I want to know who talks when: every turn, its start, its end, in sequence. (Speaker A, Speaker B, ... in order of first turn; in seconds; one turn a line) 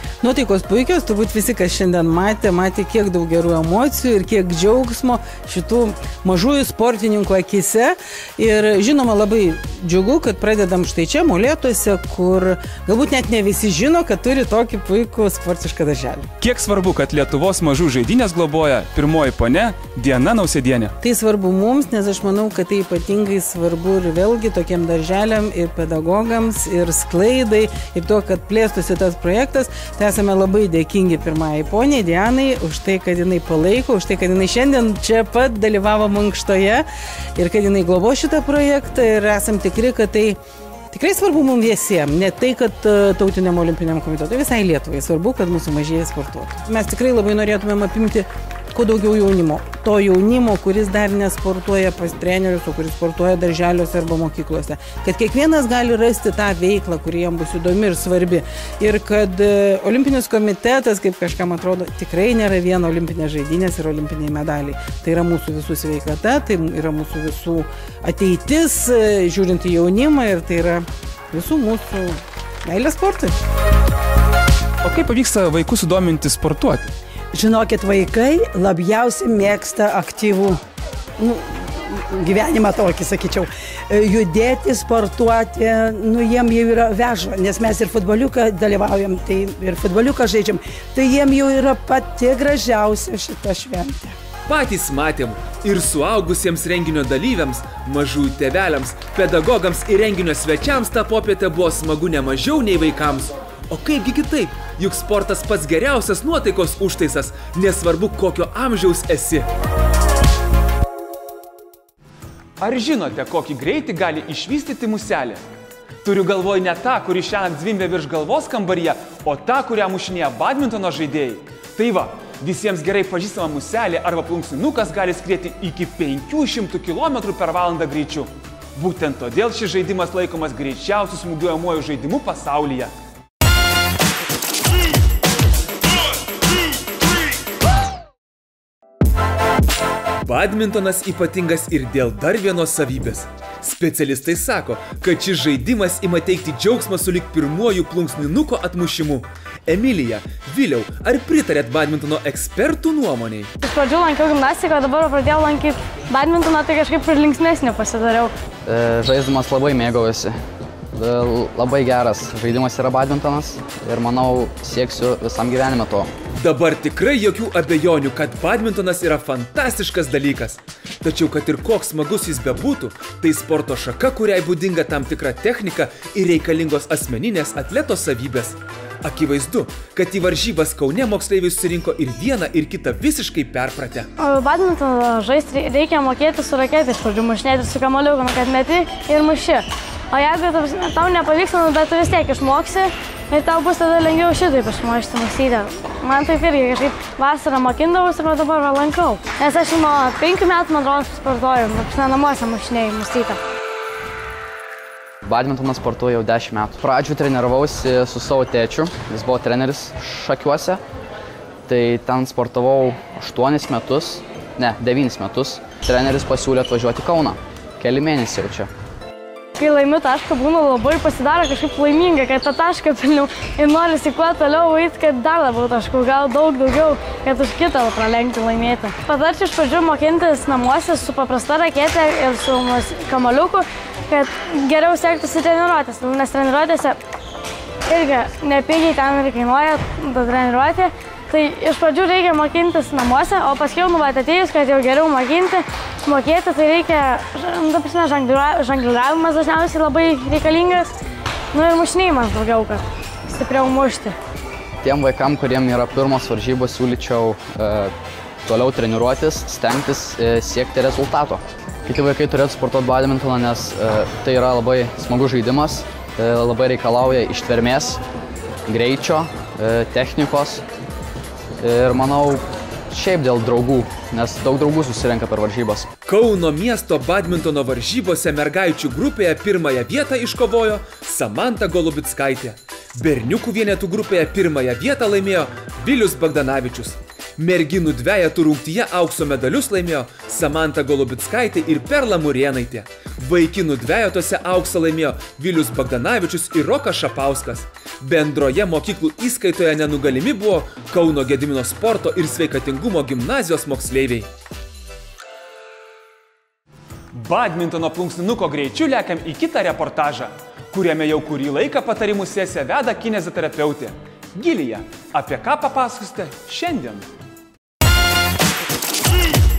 Speaker A: 0.2-16.3
Speaker B: 16.5-20.9
Speaker C: 17.0-19.1
Speaker C: 19.8-20.9
Speaker A: 21.0-40.4
Speaker A: 40.9-73.3
Speaker B: 74.8-76.9
Speaker D: 77.3-80.5
Speaker D: 82.2-94.1
Speaker C: 94.5-109.5
Speaker C: 112.6-115.4
Speaker C: 116.0-132.9
Speaker C: 140.2-153.5
Speaker E: 153.6-158.3
Speaker F: 158.7-160.4
Speaker F: 160.9-166.1
Speaker C: 166.4-184.1
Speaker E: 184.2-203.4
Speaker F: 205.2-210.8
Speaker F: 211.7-218.7
Speaker E: 219.6-237.0
Speaker E: 237.9-250.9
Speaker E: 251.5-254.2
Speaker F: 254.8-257.9
Speaker F: 258.4-268.0
Speaker F: 268.7-270.6
Speaker F: 271.6-275.9
Speaker C: 276.1-304.3
Speaker C: 307.1-317.1